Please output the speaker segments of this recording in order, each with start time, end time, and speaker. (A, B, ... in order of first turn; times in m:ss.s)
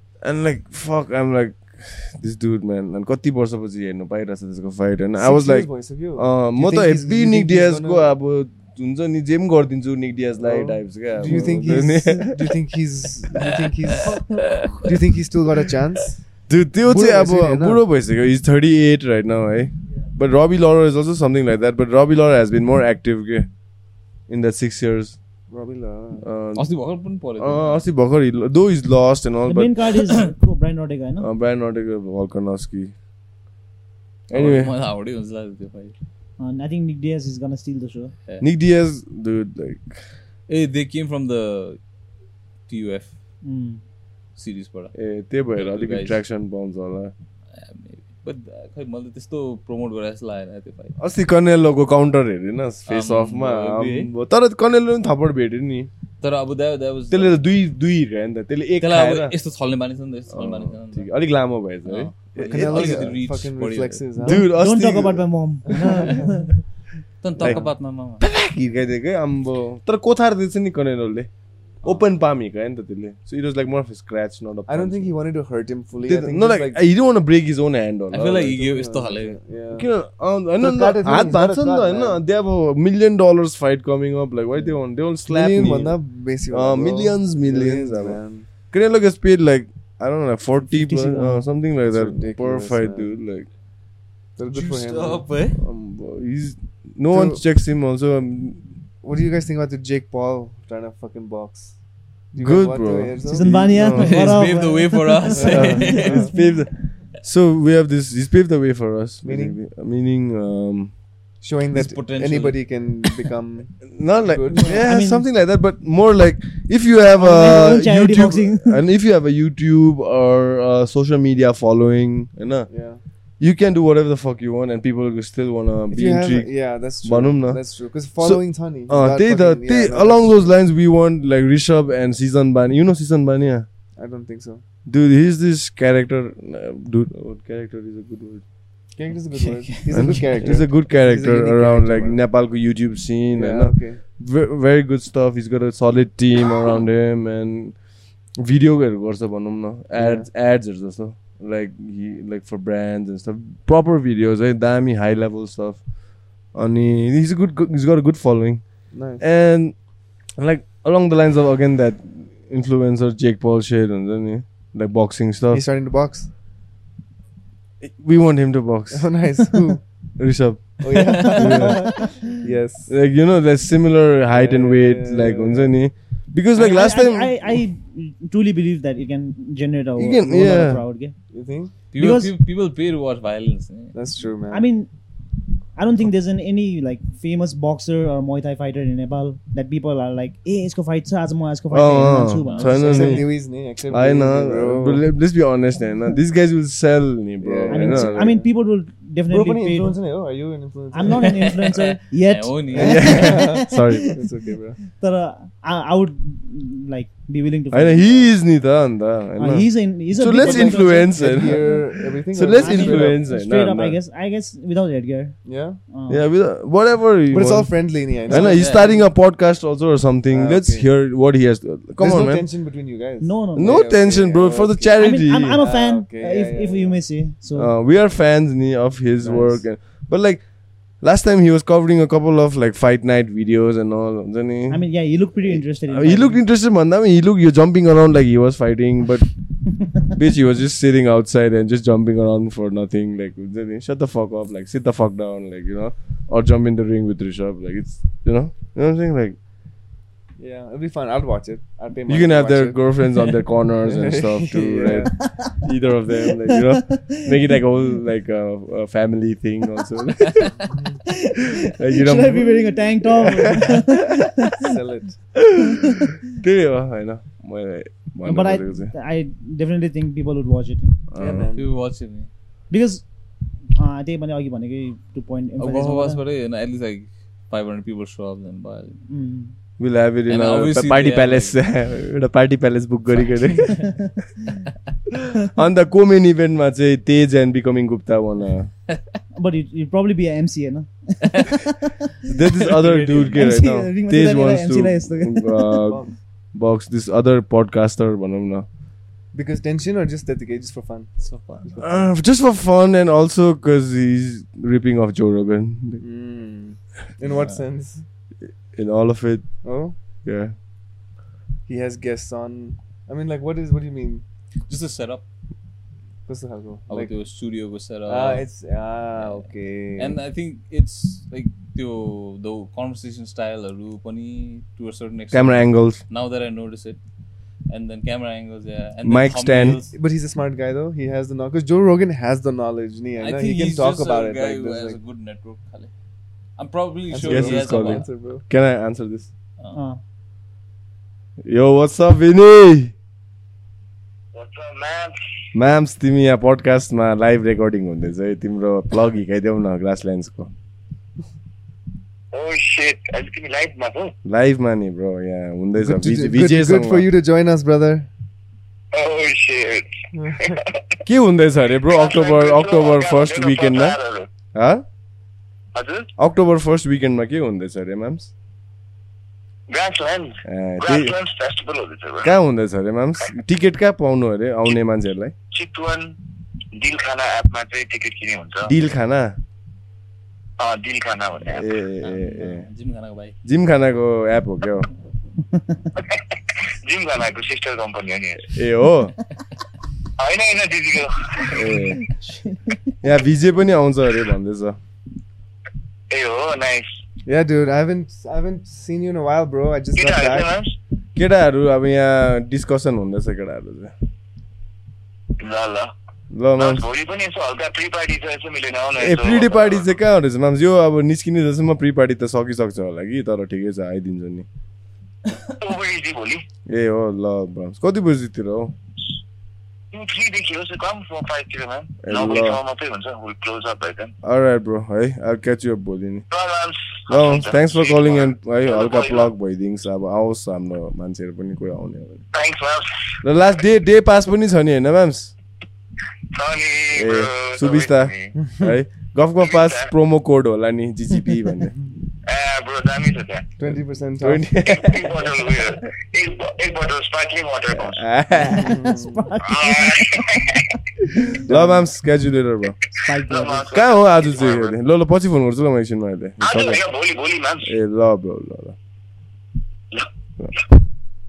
0:00.2-0:12.6 A
0:05.2-0:08.1 B
0:10.4-0:16.3 B
0:13.4-0:14.8 C
0:16.5-0:23.5 A
0:16.8-0:17.8 B
0:24.3-0:25.2 A
0:25.5-0:26.3 B
0:26.2-0:26.7 A
0:26.6-0:27.8 C
0:27.4-0:29.9 A
0:29.4-0:31.3 D
0:31.2-0:32.9 A
0:34.3-0:34.7 A
0:34.3-0:35.9 C
0:36.4-0:38.1 D
0:38.4-0:40.0 A
0:40.5-0:41.8 C
0:42.7-0:43.1 C
0:43.4-0:43.8 D
0:44.4-0:44.9 C
0:44.9-0:47.1 A
0:45.6-0:46.2 C
0:47.5-0:51.0 C
0:51.0-0:55.9 A
0:52.9-0:54.1 C
0:56.2-0:57.4 C
0:57.1-0:59.3 A
0:58.8-1:01.1 C
1:00.3-1:03.1 A
1:01.8-1:04.0 C
1:02.4-1:04.5 B
1:04.2-1:06.0 A
1:04.2-1:06.6 D
1:05.7-1:06.3 B
1:07.2-1:08.2 C
1:07.4-1:07.6 A
1:07.4-1:07.7 B
1:08.2-1:11.3 A
1:11.8-1:15.2 A
1:14.7-1:16.8 B
1:16.0-1:18.6 A
1:18.1-1:19.4 C
1:18.6-1:19.9 B
1:19.7-1:26.0 A
1:20.6-1:22.2 B
1:25.3-1:28.5 B
1:26.5-1:28.2 A
1:28.7-1:33.5 A
1:30.6-1:31.5 D
1:31.9-1:33.1 B
1:34.4-1:35.3 B
1:34.5-1:35.6 C
1:35.6-1:38.6 A
1:37.1-1:37.4 B
1:39.0-1:41.8 B
1:42.3-1:43.6 B
1:42.4-1:44.4 A
1:43.3-1:46.5 D
1:43.9-1:46.3 C
1:45.3-1:46.3 B
1:45.4-1:50.9 A
1:49.2-1:49.6 B
1:51.4-1:54.8 B
1:51.7-1:52.7 C
1:53.9-2:02.7 A
1:54.8-1:55.3 D
1:57.1-1:58.8 D
2:02.7-2:03.0 B
2:03.4-2:13.7 A
2:05.9-2:10.4 B
2:14.0-2:14.6 B
2:14.9-2:18.4 A
2:19.0-2:22.2 B
2:19.3-2:20.4 C
2:19.9-2:27.8 A
2:23.3-2:24.0 B
2:28.4-2:35.9 A
2:30.0-2:30.3 B
2:36.5-2:39.7 A
2:38.9-2:39.2 B
2:40.3-2:45.6 A
2:45.5-2:46.3 B
2:47.8-2:49.1 A
2:48.9-2:49.8 B
2:50.2-2:52.0 A
2:50.8-2:52.9 B
2:51.1-2:51.6 C
2:52.9-2:57.6 A
2:54.3-2:55.7 B
2:56.5-3:01.1 D
3:00.0-3:00.8 A
3:01.3-3:01.7 B
3:01.9-3:04.0 C
3:01.9-3:02.3 D
3:03.9-3:04.7 B
3:04.5-3:04.9 D
3:05.7-3:13.2 D
3:11.7-3:13.3 A
3:12.4-3:12.7 C
3:12.6-3:15.0 B
3:13.9-3:18.4 A
3:17.4-3:18.5 B
3:17.7-3:19.9 D
3:19.3-3:21.5 B
3:20.9-3:24.1 D
3:21.0-3:23.3 C
3:22.7-3:24.2 A
3:22.7-3:24.8 B
3:24.9-3:28.3 D
3:27.7-3:34.0 A
3:29.4-3:31.8 D
3:30.3-3:33.2 B
3:32.5-3:35.4 D
3:35.4-3:35.8 B
3:35.9-3:36.3 D
3:36.1-3:42.4 A
3:37.3-3:38.6 B
3:38.3-3:39.0 C
3:40.3-3:40.9 B
3:42.0-3:47.0 B
3:43.2-3:43.9 D
3:43.6-3:45.6 A
3:45.0-3:47.7 D
3:47.6-3:50.5 A
3:49.2-3:49.7 B
3:51.0-3:54.9 A
3:54.7-3:56.4 D
3:55.4-4:09.4 A
4:10.4-4:12.8 B
4:12.1-4:20.6 A
4:13.8-4:15.2 B
4:16.4-4:17.2 D
4:20.6-4:21.0 B
4:21.1-4:24.7 D
4:21.6-4:24.4 A
4:24.6-4:25.3 B
4:25.4-4:28.9 A
4:25.7-4:26.1 D
4:28.2-4:31.0 D
4:31.1-4:31.5 A
4:31.2-4:31.7 B
4:31.6-4:32.3 C
4:32.7-4:33.0 D
4:33.7-4:36.2 D
4:35.6-4:39.0 C
4:39.1-4:39.5 D
4:39.8-4:44.1 A
4:40.3-4:41.6 C
4:45.4-4:48.7 A
4:49.4-4:52.0 D
4:52.3-4:58.7 A
4:52.6-4:53.5 C
4:53.3-4:55.8 D
4:55.9-4:56.1 B
4:59.3-5:02.0 B
5:01.2-5:01.6 C
5:01.8-5:06.0 A
5:06.0-5:08.0 B
5:07.3-5:07.6 C
5:08.7-5:09.6 A
5:09.6-5:10.0 B
5:10.2-5:10.5 A
5:11.7-5:14.2 B
5:14.7-5:15.2 C
5:16.3-5:17.1 B
5:16.9-5:18.4 C
5:18.0-5:20.2 B
5:19.2-5:27.0 C
5:25.3-5:26.0 A
5:27.7-5:29.9 C
5:29.0-5:29.8 A
5:29.9-5:35.0 B
5:33.2-5:35.9 C
5:36.6-5:38.0 C
5:37.1-5:38.4 B
5:37.2-5:39.3 A
5:39.7-5:40.0 D
5:41.4-5:42.9 A
5:44.3-5:45.1 E
5:45.5-5:50.5 A
5:52.3-5:54.1 E
5:54.2-5:57.1 A
5:55.8-5:58.1 B
5:58.9-6:00.8 E
6:00.1-6:00.6 B
6:01.0-6:04.0 A
6:01.9-6:04.3 E
6:04.5-6:04.8 A
6:05.7-6:06.1 E
6:06.2-6:08.3 A
6:09.7-6:12.3 E
6:10.4-6:11.1 A
6:12.2-6:15.3 A
6:15.5-6:16.2 E
6:16.8-6:18.7 E
6:18.6-6:19.4 A
6:20.6-6:21.7 E
6:21.4-6:22.7 A
6:22.0-6:23.3 C
6:23.4-6:24.9 A
6:26.0-6:28.5 E
6:28.5-6:29.2 A
6:30.2-6:31.6 E
6:31.5-6:32.1 A
6:32.1-6:32.8 D
6:33.0-6:34.8 A
6:36.1-6:37.0 E
6:37.2-6:40.6 B
6:40.0-6:40.8 E
6:41.2-6:43.9 A
6:45.4-6:45.9 E
6:46.3-6:46.9 A
6:46.6-6:49.9 E
6:49.0-6:54.4 A
6:55.6-6:56.4 E
6:56.7-6:58.8 A
6:59.9-7:04.1 E
7:02.0-7:02.6 A
7:04.2-7:06.2 A
7:06.3-7:09.3 E
7:07.1-7:12.2 A
7:12.3-7:13.2 E
7:13.2-7:15.3 A
7:16.3-7:18.4 E
7:16.9-7:21.8 A
7:19.4-7:19.9 E
7:22.2-7:23.5 E
7:23.6-7:24.5 B
7:23.7-7:25.8 A
7:24.6-7:28.0 E
7:27.7-7:28.8 A
7:28.5-7:30.5 D
7:28.5-7:29.3 B
7:29.4-7:30.6 E
7:31.2-7:31.8 D
7:31.4-7:32.8 A
7:33.0-7:33.7 D
7:33.2-7:34.7 E
7:33.7-7:36.8 A
7:36.4-7:37.7 E
7:37.6-7:38.8 A
7:39.9-7:40.6 E